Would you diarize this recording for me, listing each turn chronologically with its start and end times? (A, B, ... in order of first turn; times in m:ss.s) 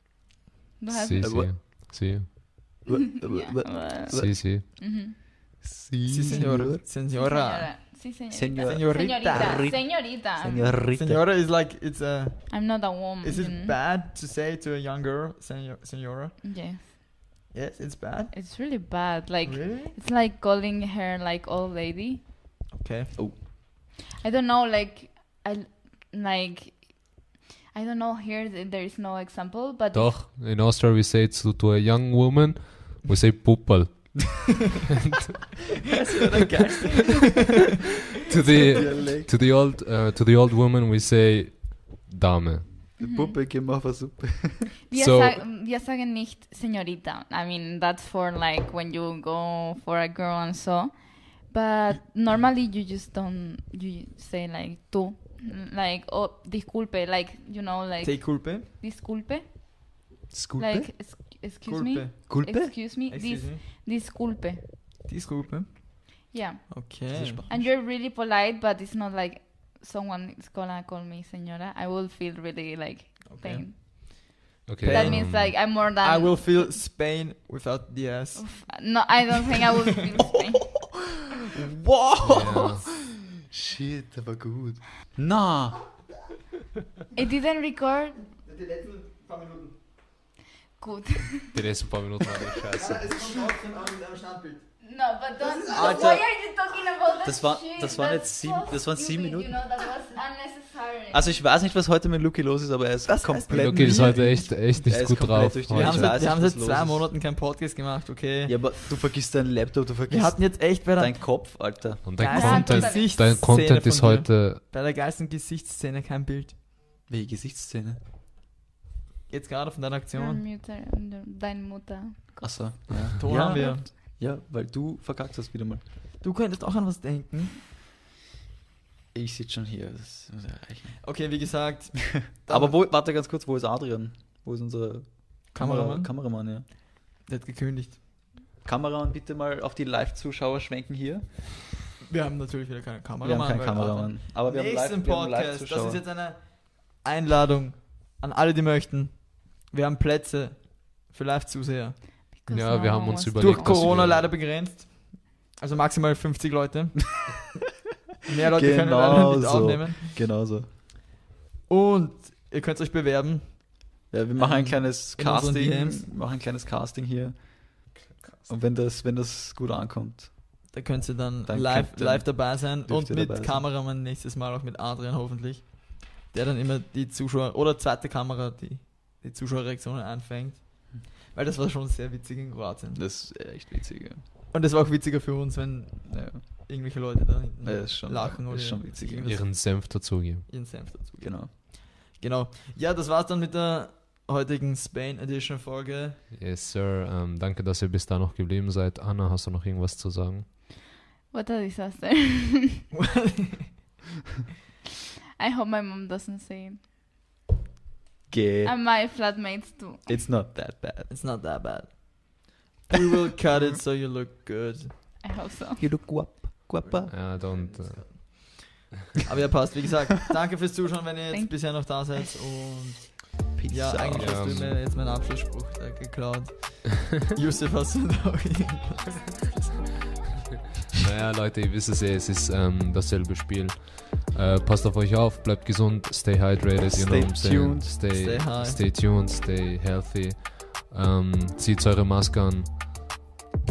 0:00.8-0:01.5 A
0:00.9-0:02.8 B
0:01.2-0:01.6 C
0:02.9-0:04.8 C
0:03.3-0:05.2 A
0:04.1-0:04.6 B
0:05.6-0:06.8 C
0:06.1-0:08.0 D
0:07.0-0:10.8 A
0:08.3-0:11.2 C
0:08.6-0:09.8 D
0:11.0-0:16.4 D
0:12.5-0:13.8 A
0:16.4-0:16.9 A
0:17.5-0:18.3 D
0:18.3-0:22.2 A
0:19.4-0:19.9 D
0:22.7-0:23.1 D
0:24.2-0:30.2 A
0:29.9-0:34.6 B
0:35.9-0:37.4 C
0:36.3-0:37.2 D
0:38.3-0:42.7 B
0:38.6-0:39.3 C
0:43.0-0:44.7 C
0:43.0-0:43.4 A
0:44.9-1:00.0 A
0:45.0-0:45.4 B
0:58.0-0:58.6 D
1:00.3-1:00.9 C
1:00.6-1:04.6 A
1:01.6-1:02.3 D
1:02.3-1:02.8 C
1:03.1-1:03.6 D
1:05.1-1:07.4 D
1:06.3-1:16.8 A
1:07.1-1:07.7 C
1:13.3-1:14.2 D
1:14.7-1:15.6 B
1:14.8-1:19.0 D
1:18.4-1:20.8 A
1:21.6-1:26.0 C
1:22.2-1:22.8 B
1:27.1-1:28.3 A
1:28.4-1:29.7 D
1:30.8-1:31.6 A
1:31.5-1:33.1 B
1:32.8-1:34.6 D
1:34.8-1:41.3 A
1:35.7-1:36.4 C
1:37.2-1:39.7 C
1:41.1-1:47.1 C
1:43.0-1:44.5 D
1:43.5-1:46.2 B
1:45.7-1:48.8 D
1:48.5-1:52.4 C
1:50.1-1:51.6 D
1:52.0-1:54.6 B
1:52.2-1:56.6 D
1:52.3-1:53.2 A
1:57.1-1:58.0 C
1:59.3-2:00.4 D
2:00.1-2:03.8 A
2:02.4-2:05.8 C
2:03.2-2:03.8 D
2:06.2-2:07.5 D
2:09.1-2:11.1 C
2:11.0-2:12.8 D
2:12.3-2:16.6 C
2:15.5-2:16.1 D
2:16.7-2:18.0 D
2:18.6-2:21.8 C
2:22.0-2:32.0 D
2:23.2-2:26.0 C
2:32.3-2:33.9 A
2:32.5-2:34.3 B
2:33.4-2:37.3 D
2:38.3-2:40.2 D
2:38.5-2:40.7 C
2:41.7-2:46.0 D
2:44.1-2:50.7 C
2:50.7-3:03.0 D
2:51.4-2:53.6 C
3:03.0-3:04.2 C
3:04.5-3:10.0 D
3:06.1-3:06.4 C
3:07.6-3:09.3 C
3:09.2-3:10.4 B
3:10.5-3:16.2 D
3:11.2-3:11.5 C
3:16.3-3:20.5 B
3:21.3-3:22.8 A
3:22.9-3:23.8 D
3:25.4-3:26.9 A
3:28.3-3:28.8 C
3:28.6-3:30.2 A
3:30.0-3:31.1 C
3:31.1-3:34.9 D
3:35.2-3:35.9 A
3:35.8-3:37.2 C
3:36.8-3:49.5 D
3:37.1-3:38.8 B
3:41.3-3:42.2 A
3:43.6-3:44.8 C
3:44.1-3:44.8 B
3:51.0-4:03.0 B
3:56.9-3:58.2 C
3:58.1-3:58.8 D